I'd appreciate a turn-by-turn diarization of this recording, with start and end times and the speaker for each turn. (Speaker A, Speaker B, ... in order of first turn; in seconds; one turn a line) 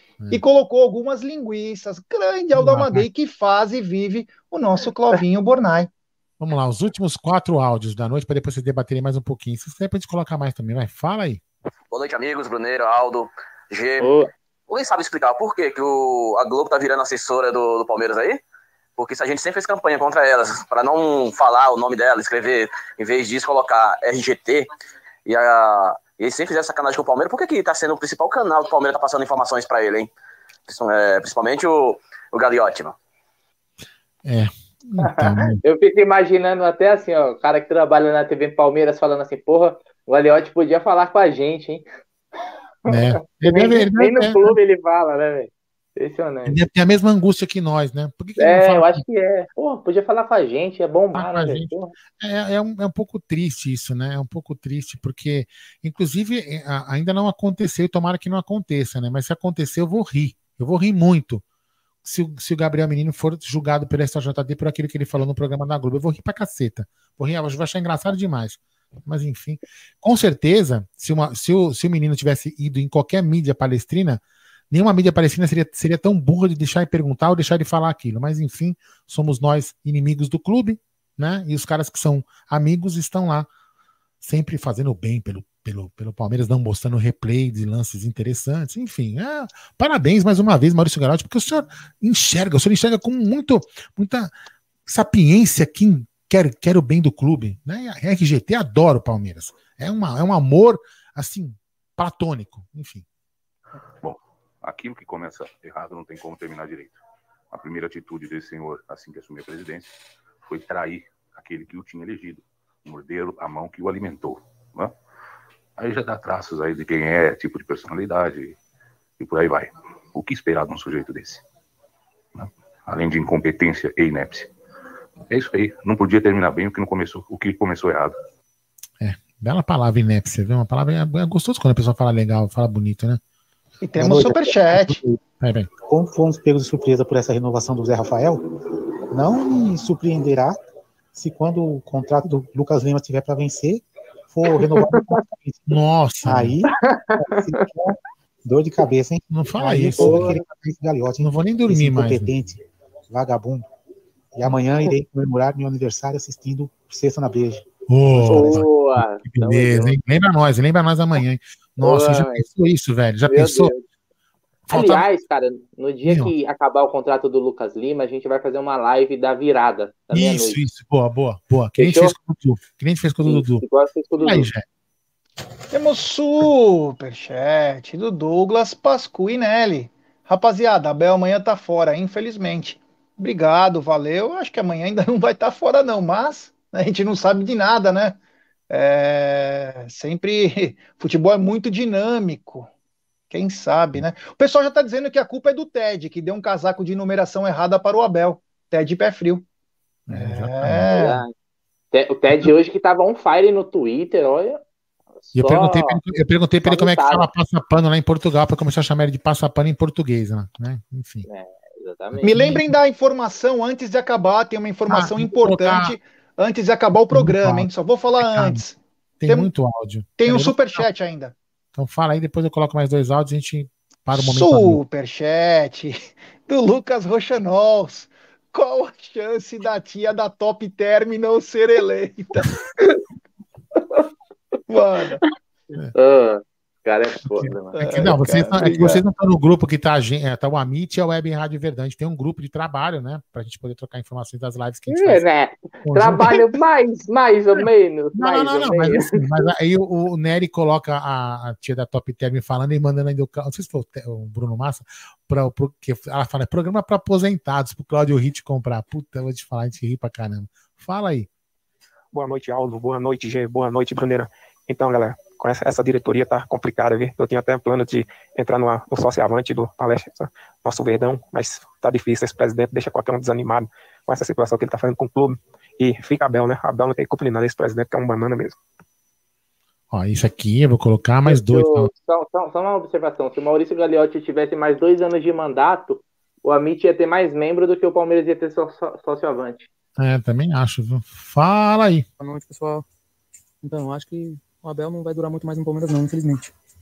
Speaker A: 0.3-5.9
Speaker B: 2.5-3.1
Speaker B: 6.4-11.4
Speaker C: 11.9-18.4
Speaker D: 14.0-14.3
Speaker C: 19.0-24.7
Speaker C: 25.3-30.1
Speaker C: 30.7-33.0
Speaker B: 34.2-35.6
Speaker D: 35.0-41.9
Speaker B: 42.9-44.6
Speaker D: 42.9-46.6
Speaker B: 46.5-49.0
Speaker D: 48.4-51.9
Speaker B: 51.1-61.4
Speaker B: 62.0-83.5
Speaker B: 84.2-94.3
Speaker B: 94.9-103.0
Speaker E: 104.1-106.9
Speaker E: 107.5-109.8
Speaker E: 110.5-114.4
Speaker E: 115.8-118.5
Speaker E: 119.2-121.4
Speaker E: 122.9-124.5
Speaker E: 125.3-128.1
Speaker B: 129.0-133.2
Speaker A: 133.8-135.0
Speaker F: 134.0-135.2
Speaker B: 135.4-135.7
Speaker F: 135.8-138.5
Speaker F: 139.1-140.6
Speaker F: 141.1-145.7
Speaker B: 145.7-146.6
Speaker F: 146.2-146.7
Speaker D: 146.8-147.4
Speaker F: 147.2-153.7
Speaker B: 149.3-150.3
Speaker B: 151.2-152.3
Speaker F: 154.3-158.6
Speaker B: 157.9-163.7
Speaker D: 158.3-159.9
Speaker D: 161.8-162.4
Speaker D: 163.3-163.8
Speaker B: 164.7-165.1
Speaker D: 164.7-170.6
Speaker B: 166.1-166.3
Speaker B: 170.1-173.6
Speaker D: 171.8-172.1
Speaker D: 173.2-174.5
Speaker B: 174.2-174.7
Speaker A: 175.7-188.2
Speaker A: 188.7-192.7
Speaker A: 193.3-199.4
Speaker B: 200.1-200.9
Speaker A: 200.1-201.2
Speaker D: 200.9-201.3
Speaker D: 201.9-204.6
Speaker D: 205.2-206.0
Speaker B: 205.3-211.3
Speaker D: 206.7-207.3
Speaker D: 211.3-212.3
Speaker B: 212.1-212.7
Speaker A: 212.2-219.5
Speaker B: 214.9-216.0
Speaker B: 217.1-218.6
Speaker B: 219.2-220.9
Speaker A: 220.2-221.3
Speaker B: 221.8-224.8
Speaker A: 224.2-232.9
Speaker A: 234.7-235.2
Speaker D: 235.9-237.8
Speaker B: 237.2-245.2
Speaker A: 237.8-239.0
Speaker D: 244.9-249.1
Speaker B: 245.8-246.4
Speaker B: 248.1-261.3
Speaker G: 262.1-275.2
Speaker G: 275.8-278.5
Speaker B: 279.9-281.9
Speaker D: 281.3-289.7
Speaker B: 290.0-292.1
Speaker H: 292.2-292.9
Speaker H: 293.6-296.5